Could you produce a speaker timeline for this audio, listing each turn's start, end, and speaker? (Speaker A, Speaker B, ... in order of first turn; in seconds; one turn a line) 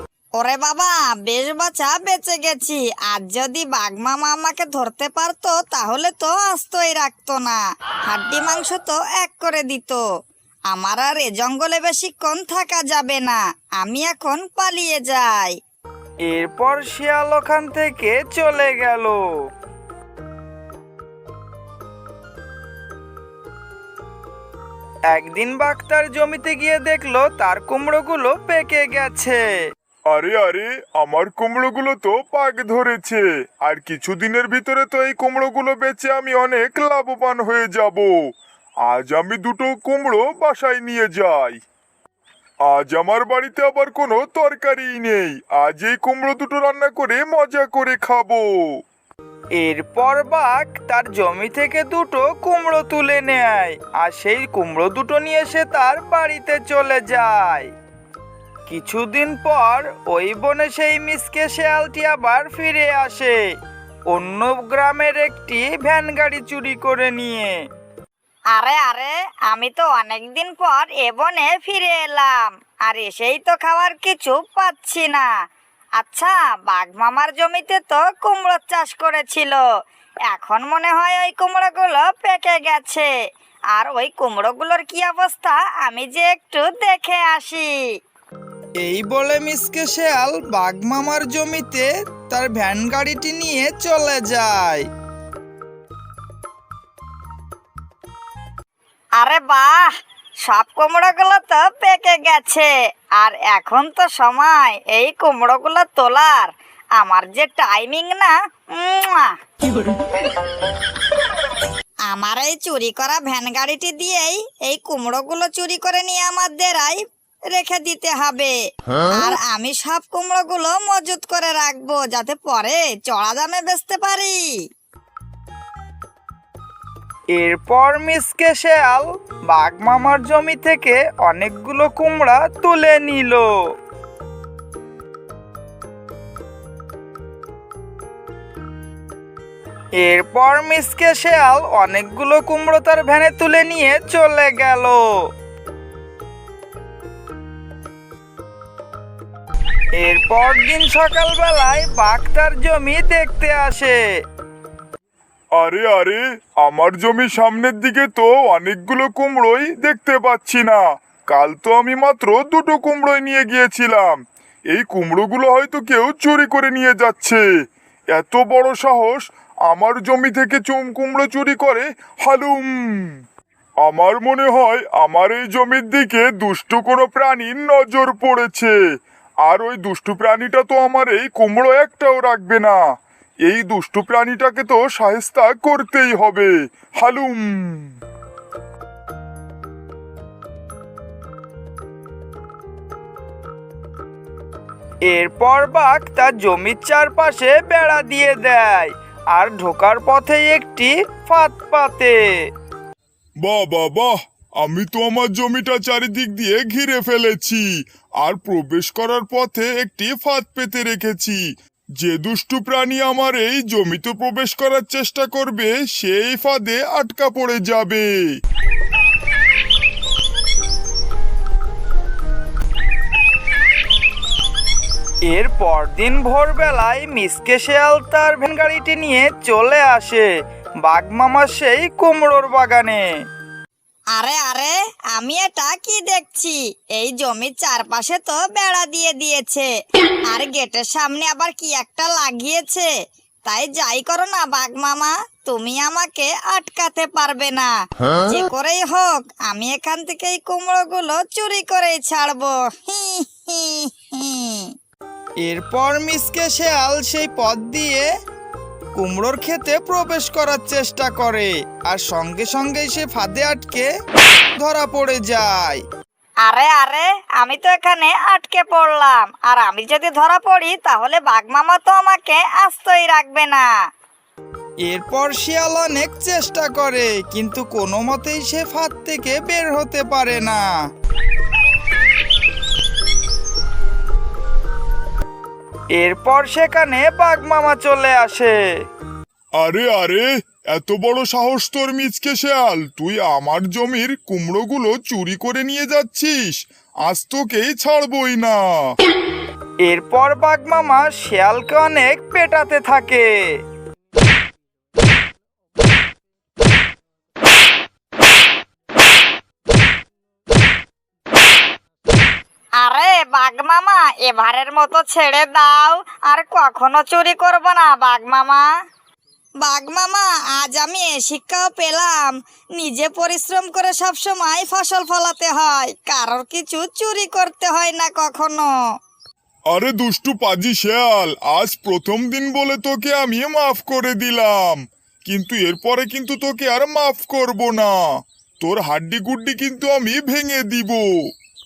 Speaker A: 0.4-10.0
Speaker A: 10.7-15.5
Speaker B: 16.3-19.2
Speaker B: 25.1-29.4
Speaker C: 30.1-38.1
Speaker C: 38.8-41.6
Speaker C: 42.7-48.5
Speaker B: 49.6-57.7
Speaker B: 58.7-63.4
Speaker B: 64.1-67.5
Speaker A: 68.5-75.3
Speaker A: 76.0-79.6
Speaker A: 80.3-83.1
Speaker A: 83.7-87.8
Speaker B: 88.8-94.8
Speaker A: 99.2-99.9
Speaker A: 100.5-109.3
Speaker A: 112.1-117.0
Speaker A: 117.5-124.5
Speaker B: 127.3-133.5
Speaker B: 140.0-145.0
Speaker B: 150.0-154.0
Speaker C: 155.6-164.2
Speaker C: 164.7-167.4
Speaker C: 168.1-173.2
Speaker C: 173.8-178.8
Speaker C: 179.4-182.8
Speaker C: 183.5-187.9
Speaker B: 195.1-202.3
Speaker C: 203.4-207.6
Speaker C: 208.2-211.4
Speaker C: 212.0-218.1
Speaker B: 225.3-230.3
Speaker B: 230.8-233.0
Speaker A: 234.2-239.7
Speaker A: 240.3-242.9
Speaker A: 243.5-254.7
Speaker B: 255.4-258.1
Speaker B: 258.9-263.9
Speaker B: 264.6-265.8
Speaker A: 266.4-273.7
Speaker B: 274.9-280.6
Speaker B: 286.0-288.6
Speaker C: 289.6-298.9
Speaker B: 299.9-303.3
Speaker A: 312.8-318.7
Speaker A: 319.6-328.7
Speaker C: 329.7-338.0
Speaker C: 338.6-341.0